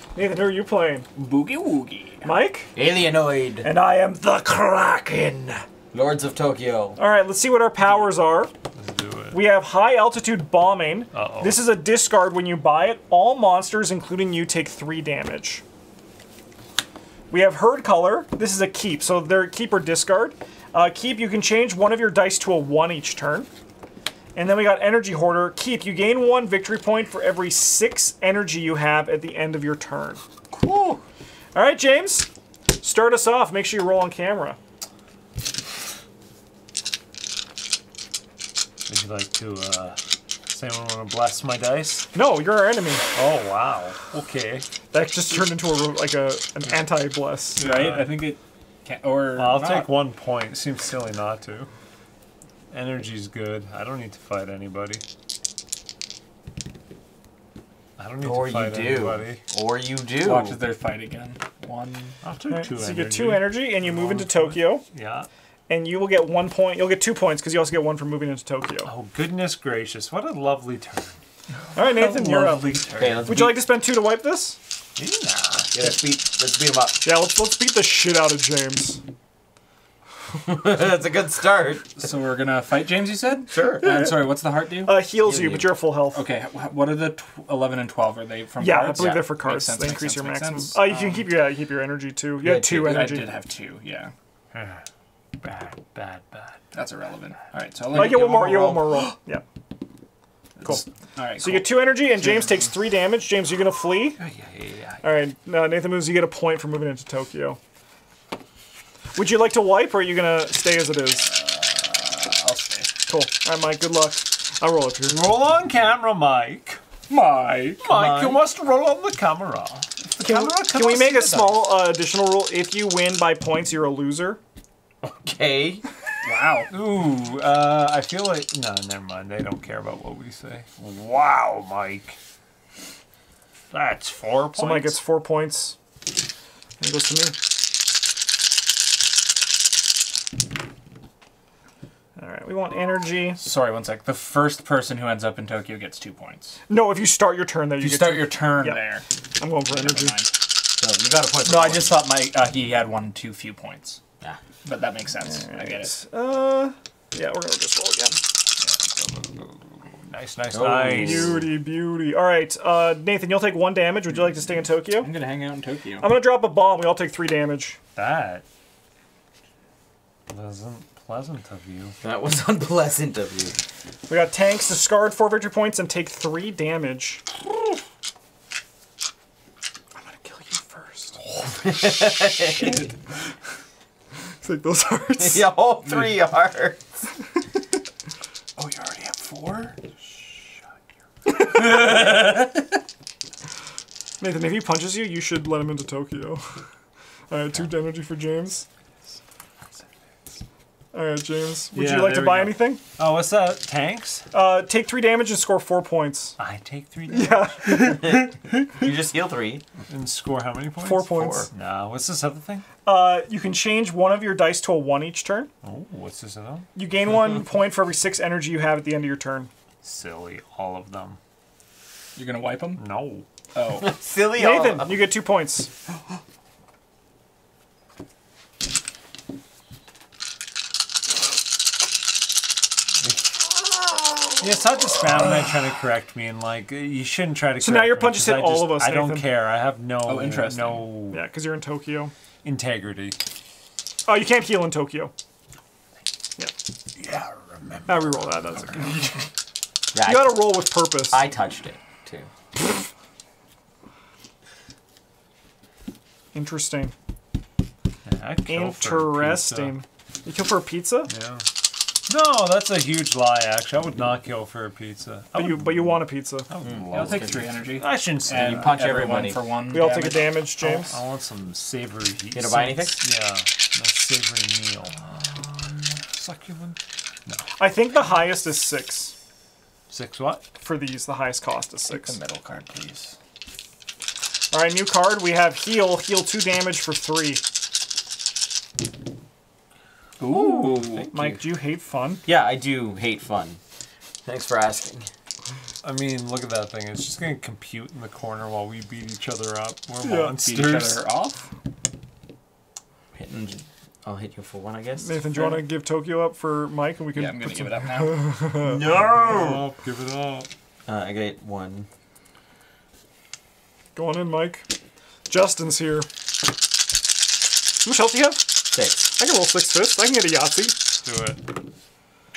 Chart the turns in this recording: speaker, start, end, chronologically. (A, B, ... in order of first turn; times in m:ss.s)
0:00.1-0:01.0 A
0:01.2-0:02.3 B
0:02.2-0:02.7 A
0:02.7-0:03.7 C
0:03.6-0:05.6 A
0:05.9-0:07.0 C
0:07.0-0:08.5 A
0:08.7-0:09.4 D
0:09.3-0:15.6 A
0:11.1-0:11.7 D
0:17.3-0:23.5 A
0:24.3-0:30.2 A
0:31.5-0:32.3 A
0:32.8-0:34.6 A
0:38.9-0:42.1 D
0:42.1-0:43.0 A
0:43.1-0:44.6 D
0:44.9-0:47.7 A
0:47.6-0:49.9 B
0:47.6-0:48.2 D
0:49.4-0:51.7 D
0:52.7-0:55.0 D
0:58.0-0:59.4 D
0:58.2-1:00.6 C
1:00.2-1:02.2 B
1:02.2-1:05.3 D
1:02.5-1:04.8 A
1:05.7-1:08.9 A
1:08.8-1:11.2 D
1:11.7-1:13.3 B
1:11.7-1:14.6 A
1:13.0-1:13.6 C
1:15.0-1:15.7 D
1:15.7-1:17.0 C
1:17.0-1:19.0 A
1:20.4-1:21.9 C
1:22.0-1:24.9 B
1:23.5-1:24.2 C
1:23.8-1:24.2 A
1:24.8-1:26.2 A
1:25.2-1:25.7 C
1:26.1-1:31.3 B
1:28.6-1:33.3 A
1:29.0-1:29.2 C
1:32.4-1:33.0 C
1:32.7-1:34.1 B
1:34.5-1:34.8 D
1:35.4-1:36.6 D
1:36.7-1:39.0 B
1:37.9-1:39.4 A
1:38.1-1:38.6 C
1:40.6-1:41.9 B
1:41.4-1:44.2 A
1:44.2-1:45.0 D
1:45.0-1:47.6 A
1:49.1-1:51.3 A
1:51.2-1:52.9 B
1:53.1-1:55.2 A
1:55.0-1:56.8 D
1:57.1-1:57.8 B
1:57.8-2:01.3 D
1:57.8-1:58.4 C
2:00.1-2:01.6 B
2:00.2-2:04.4 A
2:05.0-2:05.8 C
2:06.2-2:06.7 B
2:06.7-2:12.2 D
2:13.7-2:15.0 D
2:14.5-2:15.8 A
2:16.8-2:17.4 A
2:22.2-2:23.4 A
2:23.4-2:26.6 B
2:26.7-2:28.8 A
2:27.8-2:29.0 B
2:29.4-2:30.2 A
2:29.7-2:30.3 B
2:30.8-2:32.0 C
2:31.4-2:34.0 B
2:34.6-2:35.9 B
2:35.2-2:38.2 A
2:38.6-2:41.5 D
2:40.5-2:41.5 C
2:41.0-2:45.1 A
2:45.0-2:46.1 B
2:46.0-2:47.8 A
2:47.9-2:48.4 D
2:50.3-2:52.0 D
2:52.0-2:53.6 C
2:54.1-2:57.2 A
3:00.0-3:01.2 A
3:01.6-3:02.8 C
3:02.6-3:02.9 B
3:04.4-3:05.5 A
3:05.2-3:06.8 C
3:08.6-3:09.8 B
3:11.4-3:12.4 B
3:14.2-3:16.6 A
3:17.3-3:18.6 A
3:20.9-3:22.8 A
3:21.7-3:24.3 D
3:24.3-3:26.4 A
3:26.4-3:27.9 D
3:27.1-3:28.7 A
3:28.0-3:29.6 C
3:29.9-3:32.6 D
3:30.8-3:31.5 A
3:31.1-3:31.5 C
3:32.8-3:35.5 A
3:35.6-3:36.7 D
3:36.7-3:39.5 A
3:39.8-3:41.2 D
3:42.2-3:42.8 B
3:42.8-3:43.2 D
3:43.5-3:43.9 B
3:43.8-3:45.0 C
3:44.3-3:45.7 A
3:54.4-4:01.2 D
3:57.6-3:59.3 A
4:00.0-4:00.9 B
4:01.1-4:02.1 A
4:02.4-4:03.2 D
4:04.0-4:05.1 A
4:07.0-4:08.8 D
4:07.8-4:09.2 A
4:09.9-4:12.3 C
4:10.0-4:11.2 A
4:16.3-4:16.9 A
4:18.0-4:19.8 D
4:18.5-4:21.1 A
4:21.1-4:21.4 D
4:22.1-4:28.9 D
4:25.3-4:26.5 A
4:26.6-4:27.5 C
4:26.9-4:30.4 B
4:28.3-4:29.4 C
4:29.7-4:31.0 A
4:30.6-4:35.0 D
4:32.3-4:33.0 C
4:35.1-4:36.0 B
4:36.1-4:37.4 D
4:37.6-4:39.1 A
4:39.9-4:40.4 D
4:40.6-4:42.2 A
4:41.9-4:43.1 B
4:44.5-4:47.4 A
4:50.2-4:51.1 B
4:50.3-4:51.4 C
4:51.0-4:52.2 A
4:52.2-4:53.6 C
4:54.2-4:55.1 C
4:55.8-5:01.0 D
5:00.0-5:00.4 A
5:00.3-5:01.5 B
5:03.1-5:05.2 C
5:05.0-5:08.8 A
5:05.3-5:05.6 B
5:07.1-5:08.4 B
5:08.6-5:09.6 C
5:09.0-5:10.5 D
5:10.8-5:11.9 C
5:14.0-5:14.7 A
5:15.3-5:16.1 A
5:17.8-5:18.5 A
5:18.7-5:19.1 C
5:19.2-5:20.8 A
5:21.0-5:21.5 D